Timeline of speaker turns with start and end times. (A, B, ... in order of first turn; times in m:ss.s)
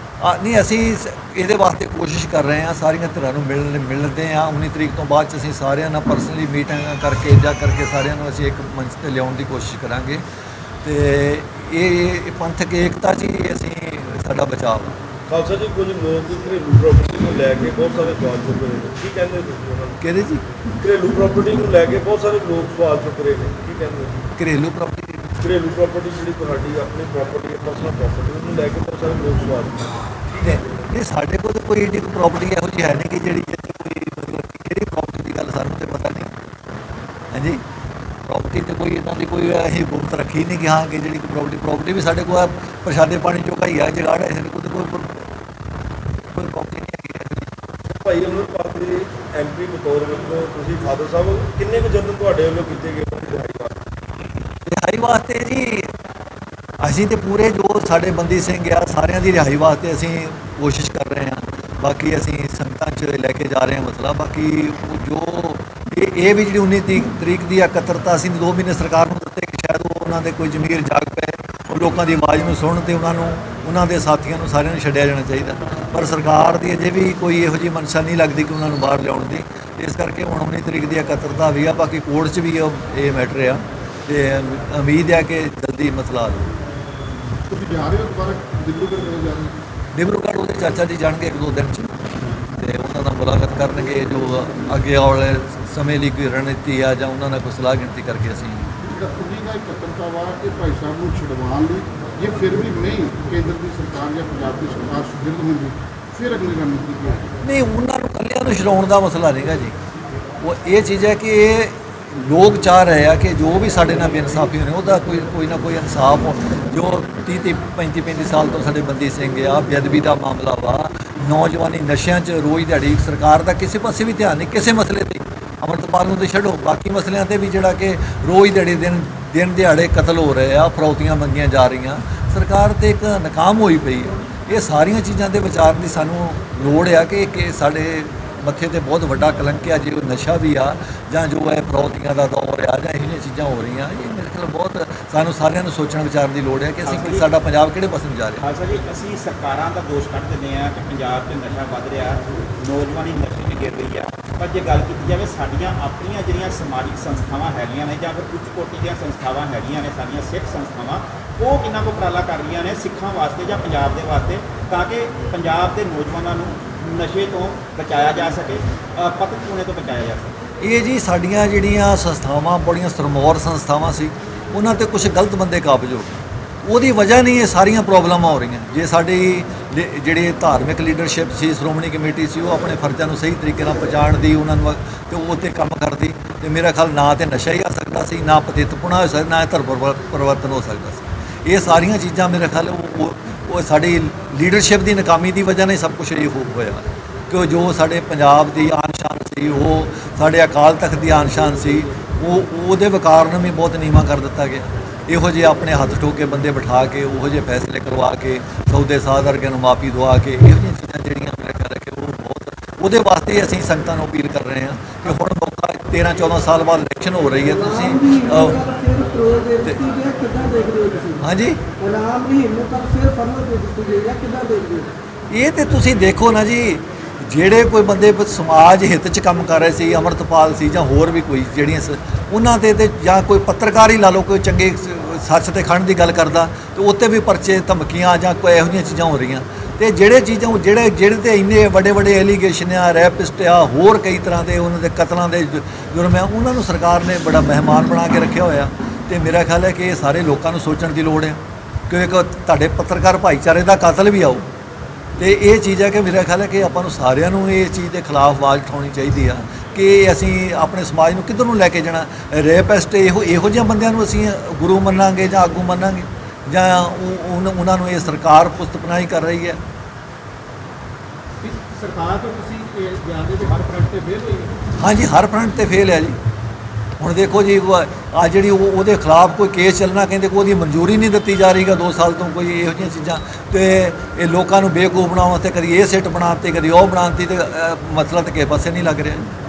0:00.2-0:10.2 A
0:10.8-0:15.0 A
0:15.3-0:20.0 B
0:20.0-0:20.4 A
0:20.8-0:24.3 B
0:24.4-0:25.4 A
0:25.4-0:30.6 B
0:30.3-0:36.4 A
0:37.3-0:37.6 A
0:38.3-0:45.3 A
0:46.3-0:47.5 A
0:47.8-0:53.9 B
0:54.7-0:55.9 A
0:56.8-1:26.5 A
1:27.5-1:29.5 C
1:29.9-1:32.0 A
1:32.6-1:38.7 A
1:38.8-1:47.3 C
1:47.4-1:49.8 A
1:50.4-2:28.4 A
2:26.8-2:27.3 D
2:28.4-2:50.4 D
2:50.6-3:38.6 A
3:37.5-3:41.2 B
3:41.2-3:41.6 A
3:41.7-3:44.9 B
3:45.3-4:11.4 A
4:11.9-4:14.5 A
4:15.2-4:29.6 A
4:31.4-4:34.6 E
4:34.8-4:36.2 A
4:37.0-4:49.3 A